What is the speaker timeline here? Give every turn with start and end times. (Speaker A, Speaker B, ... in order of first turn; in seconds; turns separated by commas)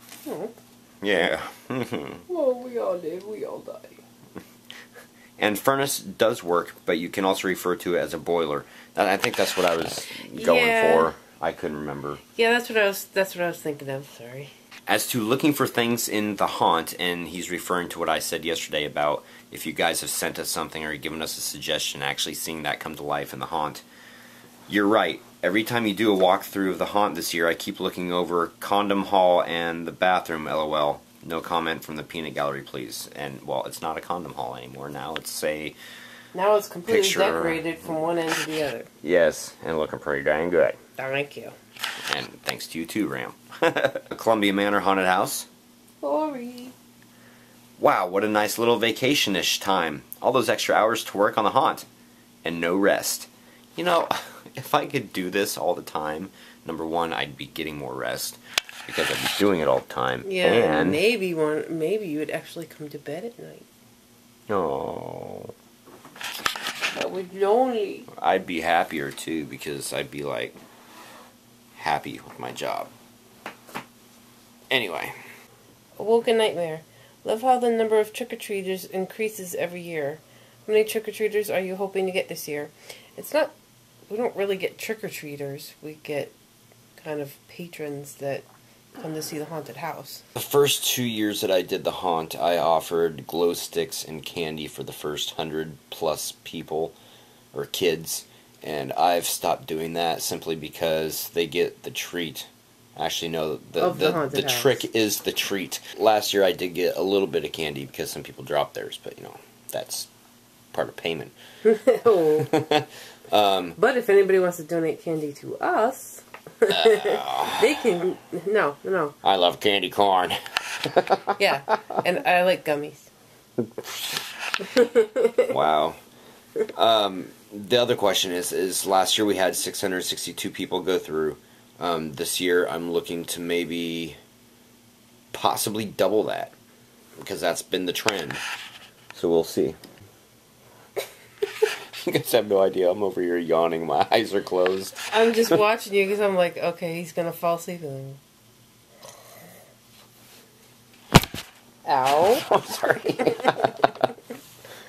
Speaker A: 0.3-0.5, Speaker B: 1.0-2.2, Speaker A: 2.3-4.0, Speaker B: 5.4-12.2, Speaker A: 10.3-11.2, Speaker A: 12.4-14.5, Speaker B: 14.9-23.8, Speaker B: 24.7-35.8, Speaker A: 36.3-38.9, Speaker B: 36.9-37.6, Speaker B: 39.0-40.8, Speaker A: 41.0-41.5, Speaker B: 42.1-45.5, Speaker A: 46.0-46.8, Speaker B: 47.8-51.9, Speaker B: 52.4-61.0, Speaker A: 60.2-63.7, Speaker B: 64.5-65.5, Speaker A: 66.9-68.1, Speaker B: 68.1-70.6, Speaker B: 71.8-72.9, Speaker B: 74.7-75.2, Speaker A: 76.0-83.5, Speaker A: 84.1-86.3, Speaker A: 87.0-88.5, Speaker A: 89.0-90.2, Speaker B: 90.3-97.0, Speaker B: 97.5-110.1, Speaker A: 103.8-104.8, Speaker B: 110.7-111.3, Speaker A: 111.7-112.5, Speaker B: 112.4-113.8, Speaker A: 113.8-119.2, Speaker B: 116.7-117.7, Speaker B: 119.2-121.4, Speaker A: 121.4-123.1, Speaker A: 124.6-125.5, Speaker B: 125.5-126.0, Speaker B: 126.8-134.2, Speaker B: 135.3-136.6, Speaker B: 137.2-138.4, Speaker B: 139.1-139.8, Speaker B: 142.0-145.0, Speaker A: 145.1-148.2, Speaker A: 151.9-152.5, Speaker B: 152.4-154.0